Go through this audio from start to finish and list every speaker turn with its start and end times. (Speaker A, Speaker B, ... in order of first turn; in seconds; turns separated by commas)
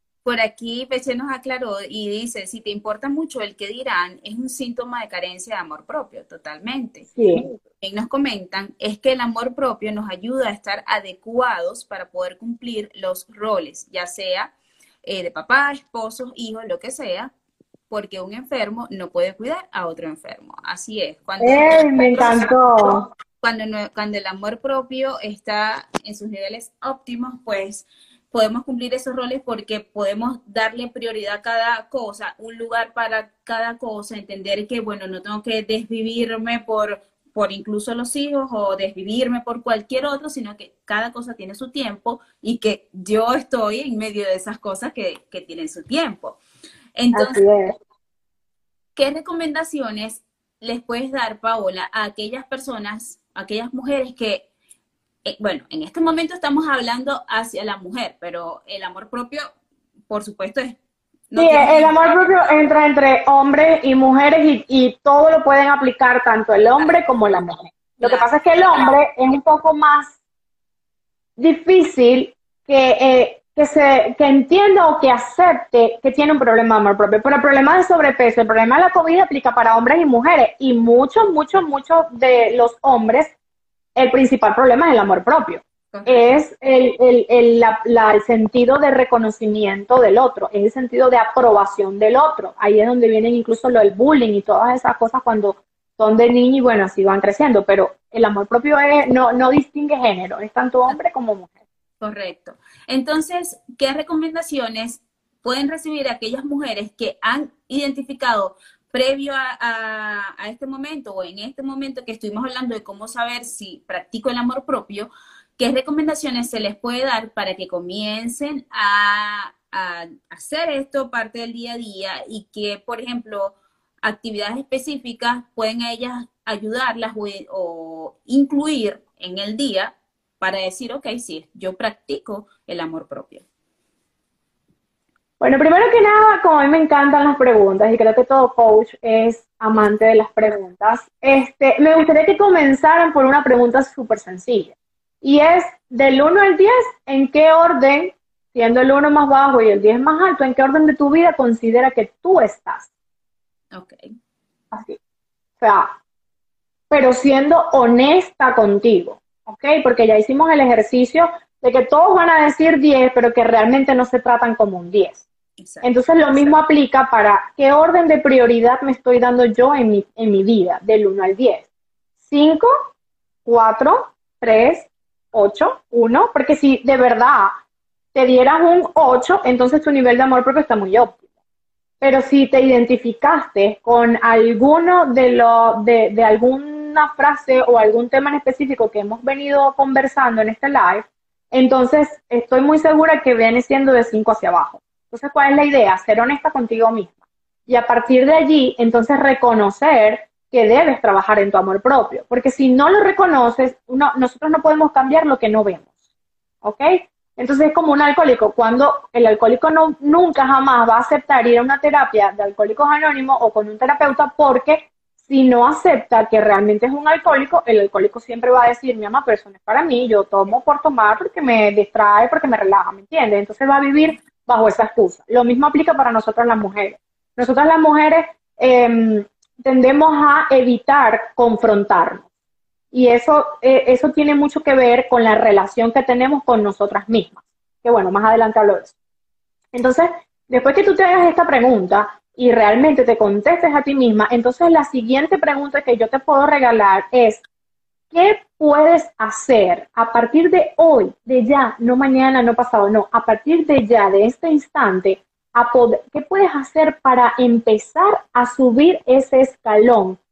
Speaker A: 0.2-14.5, Speaker B: 7.1-7.4, Speaker A: 15.0-17.3, Speaker A: 17.9-46.4, Speaker B: 21.4-23.0, Speaker A: 47.0-47.7, Speaker B: 47.1-47.7, Speaker A: 49.0-54.5, Speaker A: 55.2-59.5, Speaker A: 60.1-60.8, Speaker A: 61.3-62.6, Speaker B: 61.3-70.2, Speaker A: 68.0-69.0, Speaker B: 71.4-83.3, Speaker B: 84.0-101.5, Speaker A: 85.9-86.3, Speaker A: 102.0-133.4, Speaker B: 135.4-152.9, Speaker A: 153.7-154.0, Speaker B: 154.7-155.0, Speaker B: 155.6-155.9, Speaker B: 156.9-165.2, Speaker A: 165.6-166.5, Speaker B: 165.8-171.7, Speaker B: 172.2-172.7, Speaker B: 173.4-177.5, Speaker B: 178.1-181.2, Speaker B: 182.0-197.2, Speaker B: 197.7-205.9, Speaker B: 206.6-232.3, Speaker B: 232.9-238.9, Speaker B: 239.7-247.4, Speaker B: 248.1-260.2